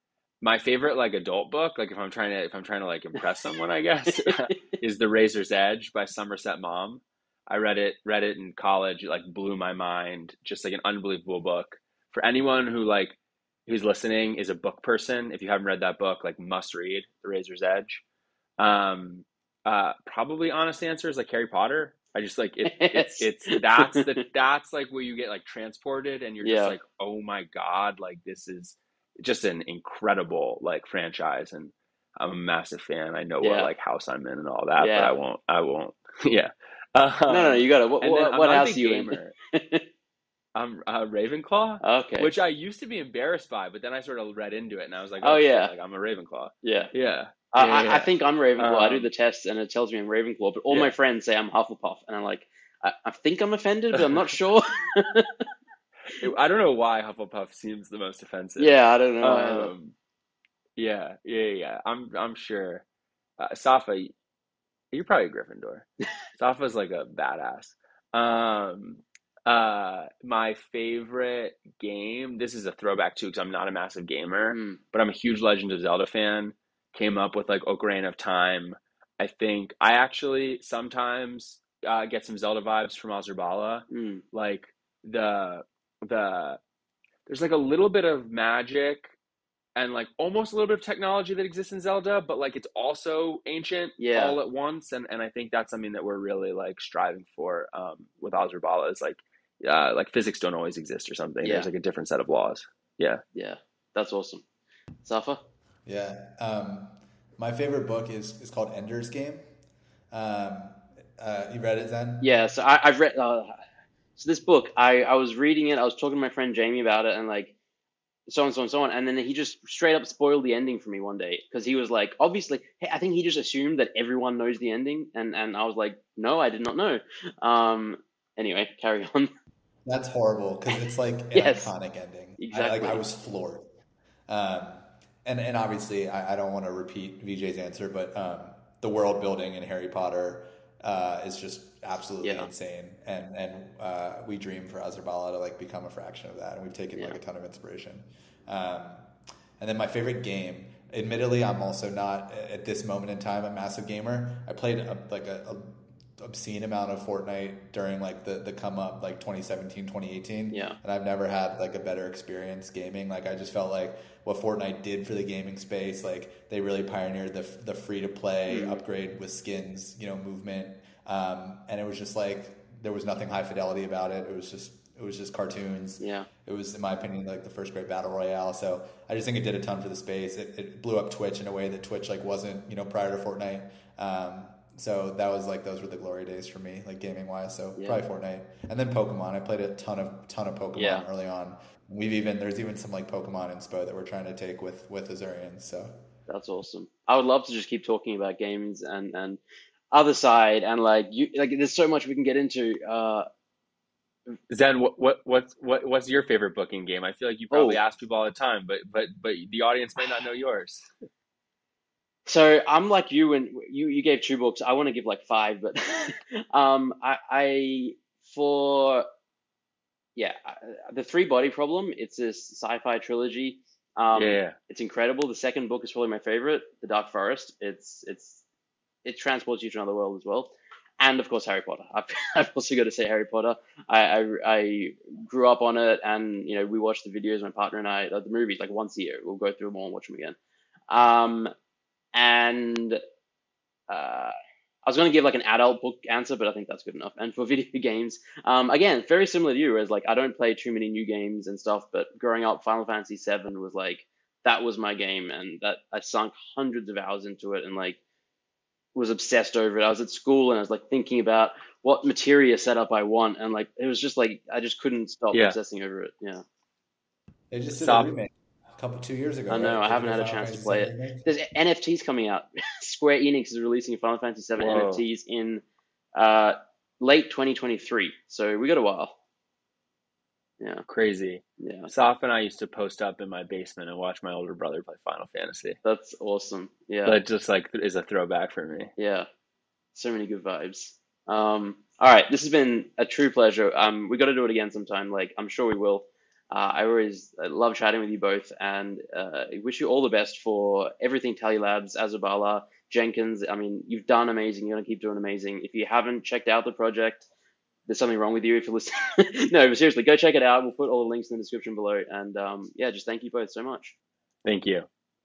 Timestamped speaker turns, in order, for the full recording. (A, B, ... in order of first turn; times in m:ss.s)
0:00.4-0:18.0 A
0:18.6-0:39.4 A
0:22.7-0:24.0 B
0:26.4-0:26.8 B
0:33.4-0:33.7 B
0:34.8-0:35.1 B
0:37.3-0:39.8 B
0:40.6-0:49.1 A
0:41.8-0:42.3 B
0:45.2-0:45.7 B
0:46.6-0:46.9 B
0:47.5-0:55.4 B
0:56.2-1:00.0 A
0:58.6-0:59.7 B
1:00.8-1:02.8 A
1:03.4-1:04.1 A
1:04.9-1:26.6 A
1:14.5-1:14.8 B
1:23.9-1:24.2 B
1:27.3-1:29.1 A
1:29.8-1:43.2 A
1:34.0-1:34.4 B
1:41.4-1:41.7 B
1:43.3-1:44.4 B
1:45.0-1:45.4 B
1:45.9-1:49.4 C
1:50.1-1:52.3 C
1:52.2-1:53.6 B
1:54.2-1:57.6 B
1:58.3-2:09.3 B
2:09.9-2:13.6 C
2:11.3-2:11.7 B
2:12.4-2:13.0 B
2:14.3-2:29.1 C
2:22.2-2:22.5 B
2:29.6-3:15.9 C
2:40.5-2:40.8 B
2:48.5-2:48.8 B
2:56.0-2:56.3 B
3:10.8-3:11.0 B
3:16.3-3:19.4 B
3:19.9-3:23.3 B
3:24.5-3:30.9 A
3:27.5-3:27.8 B
3:32.3-3:39.1 B
3:40.2-3:48.4 B
3:44.1-3:44.6 A
3:49.0-4:00.4 B
4:00.9-4:01.5 B
4:02.1-4:03.0 B
4:03.9-4:04.3 B
4:04.8-4:18.0 B
4:19.0-4:26.4 B
4:27.5-4:31.3 C
4:27.7-4:28.1 A
4:29.5-4:35.6 B
4:34.6-4:35.0 A
4:36.1-4:39.2 B
4:40.9-4:45.8 A
4:41.6-4:41.9 B
4:45.8-4:47.2 B
4:47.1-4:48.9 A
4:49.0-4:49.3 B
4:50.0-5:07.3 B
5:07.9-5:14.0 B
5:14.4-5:14.9 A